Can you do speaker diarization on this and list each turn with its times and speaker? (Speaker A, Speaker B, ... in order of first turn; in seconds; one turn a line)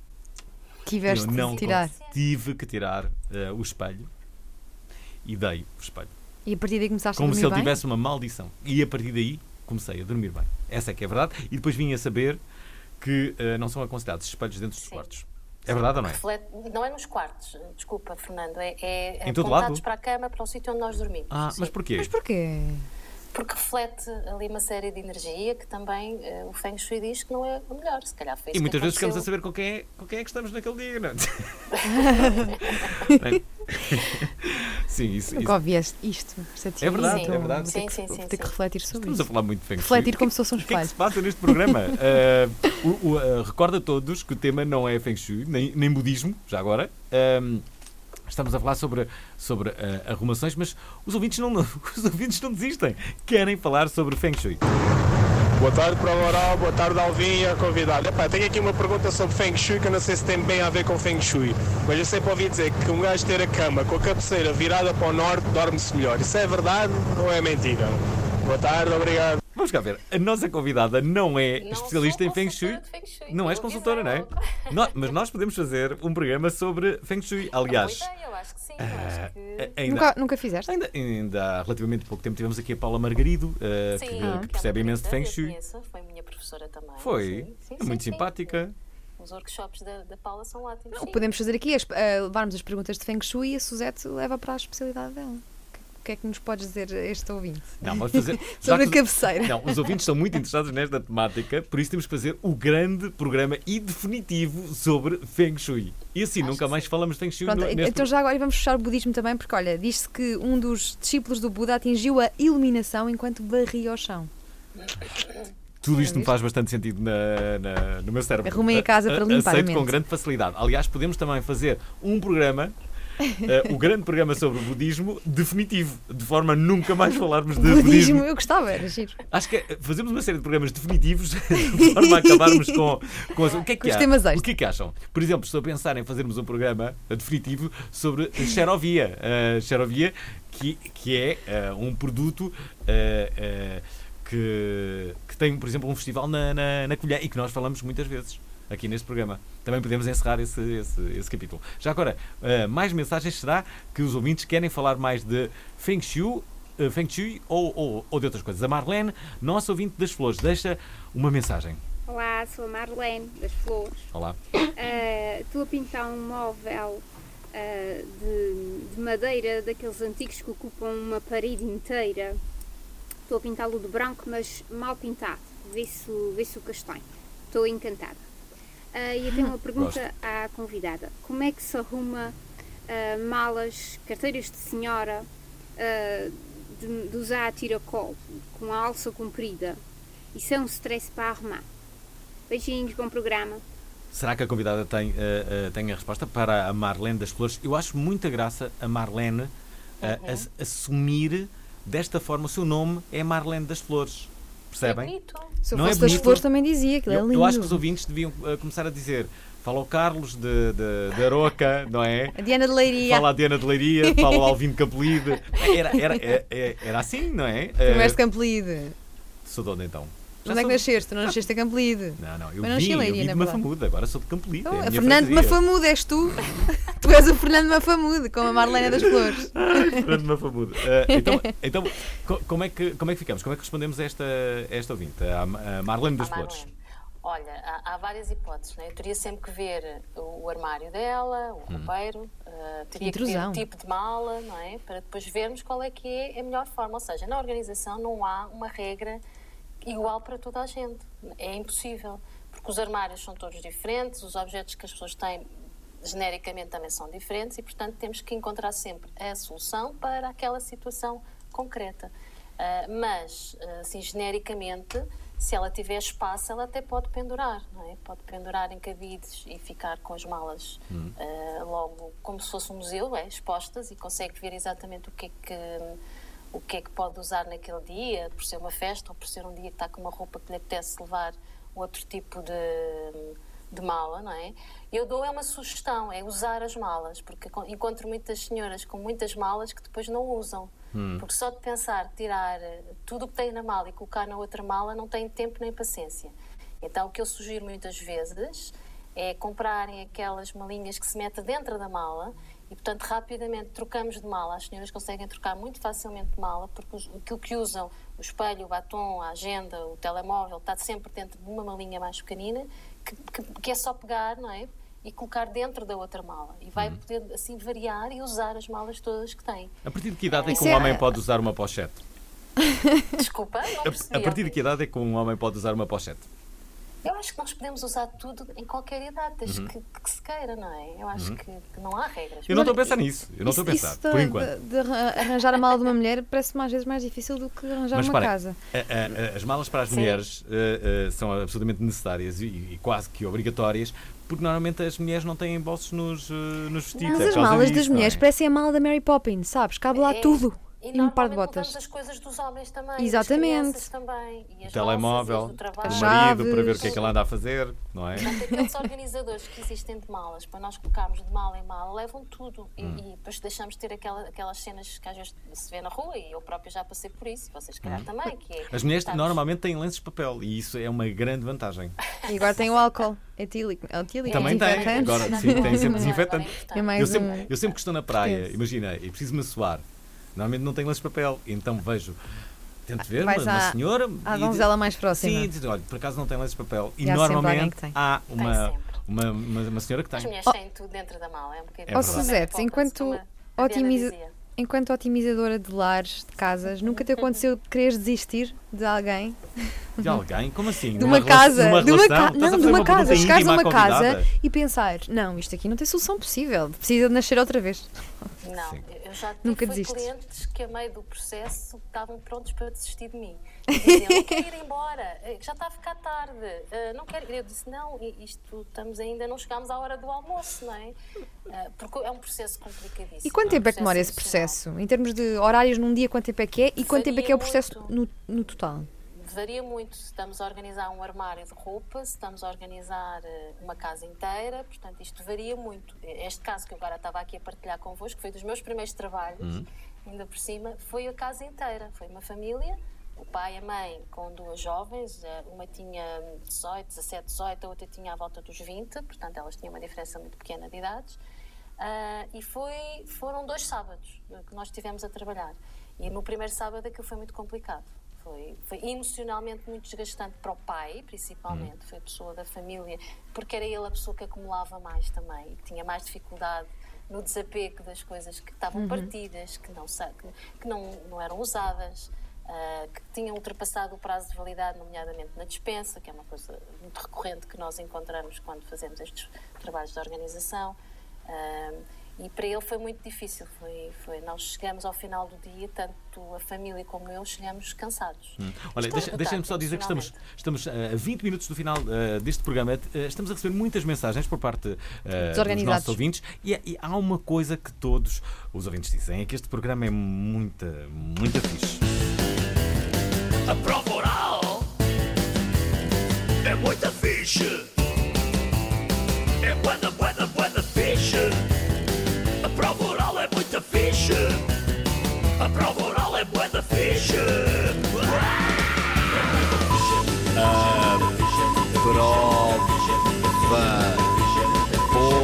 Speaker A: 0.9-1.9
Speaker B: 1.1-4.1
Speaker C: 1.2-2.2
Speaker B: 5.2-6.1
Speaker A: 6.5-7.7
Speaker B: 7.2-12.4
Speaker B: 13.0-16.2
Speaker C: 15.7-21.7
Speaker B: 19.2-19.8
Speaker B: 21.3-22.1
Speaker A: 22.0-22.9
Speaker C: 23.3-29.3
Speaker B: 28.5-31.6
Speaker C: 31.7-32.9
Speaker A: 31.9-32.4
Speaker B: 32.4-35.5
Speaker A: 35.4-42.0
Speaker B: 36.8-37.8
Speaker C: 37.0-38.5
Speaker B: 38.9-47.6
Speaker B: 48.3-54.6
Speaker D: 55.6-69.4
Speaker B: 69.5-78.1
Speaker C: 71.6-74.8
Speaker C: 77.6-79.7
Speaker B: 78.8-80.1
Speaker A: 79.9-80.7
Speaker B: 80.7-85.6
Speaker C: 83.9-88.6
Speaker A: 84.2-84.5
Speaker B: 87.0-88.7
Speaker C: 89.2-91.3
Speaker A: 90.9-99.8
Speaker B: 97.8-108.1
Speaker C: 106.4-106.9
Speaker A: 107.5-114.3
Speaker C: 114.8-115.5
Speaker B: 115.8-122.8
Speaker A: 116.0-116.3
Speaker A: 118.5-120.0
Speaker B: 123.3-128.3
Speaker A: 127.6-129.2
Speaker B: 129.3-161.8
Speaker A: 132.0-132.8
Speaker C: 133.4-133.7
Speaker A: 133.8-134.4
Speaker E: 162.1-164.1
Speaker B: 164.1-164.4
Speaker E: 164.8-172.4
Speaker E: 173.3-178.2
Speaker E: 178.9-189.8
Speaker B: 179.8-180.0
Speaker E: 190.3-191.7
Speaker E: 192.5-193.6
Speaker B: 194.1-199.5
Speaker C: 200.0-200.5
Speaker B: 200.0-205.1
Speaker C: 204.8-206.4
Speaker A: 205.7-207.8
Speaker B: 205.7-206.5
Speaker B: 207.1-212.4
Speaker A: 212.4-213.4
Speaker B: 213.0-218.2
Speaker A: 214.0-214.5
Speaker A: 215.6-216.4
Speaker A: 217.8-218.9
Speaker B: 219.4-221.4
Speaker A: 220.4-223.6
Speaker B: 222.2-225.6
Speaker A: 224.7-230.2
Speaker B: 228.9-236.7
Speaker A: 231.1-231.4
Speaker C: 236.2-249.2
Speaker A: 243.0-243.6
Speaker C: 249.8-255.5
Speaker C: 256.0-276.0
Speaker B: 270.9-271.1
Speaker C: 276.5-319.8
Speaker B: 290.9-291.2
Speaker B: 319.9-322.0
Speaker C: 320.3-321.0
Speaker A: 320.5-321.0
Speaker A: 322.7-323.0
Speaker C: 323.2-324.6
Speaker B: 323.8-326.2
Speaker C: 327.0-332.9
Speaker B: 329.5-329.7
Speaker B: 331.1-331.4
Speaker B: 332.5-334.5
Speaker A: 333.4-338.6
Speaker B: 337.9-348.2
Speaker C: 339.9-340.2
Speaker C: 346.9-347.8
Speaker A: 347.1-351.8
Speaker C: 349.9-357.1
Speaker A: 353.0-353.9
Speaker B: 354.6-358.3
Speaker A: 355.8-357.0
Speaker C: 358.2-369.4
Speaker A: 358.3-358.6
Speaker B: 368.7-372.0
Speaker A: 372.3-376.1
Speaker C: 374.2-377.7
Speaker B: 374.3-379.8
Speaker A: 376.7-377.5
Speaker A: 378.2-378.5
Speaker B: 380.4-382.2
Speaker B: 382.9-390.3
Speaker A: 383.1-385.5
Speaker A: 387.0-387.9
Speaker C: 388.4-389.0
Speaker C: 390.1-394.4
Speaker B: 391.9-392.3
Speaker A: 391.9-400.2
Speaker C: 396.8-397.4
Speaker B: 400.0-404.3
Speaker A: 401.0-408.3
Speaker C: 408.4-421.0
Speaker B: 408.6-408.8
Speaker A: 409.4-410.1
Speaker A: 413.7-414.3
Speaker C: 421.5-424.6
Speaker A: 423.2-428.9
Speaker C: 426.8-427.9
Speaker C: 428.9-451.2
Speaker C: 451.8-490.2
Speaker A: 468.8-469.1
Speaker B: 488.4-501.8
Speaker A: 495.2-496.0
Speaker F: 503.5-504.7
Speaker F: 506.4-507.7
Speaker F: 509.4-511.4
Speaker F: 512.4-514.5
Speaker F: 515.4-518.3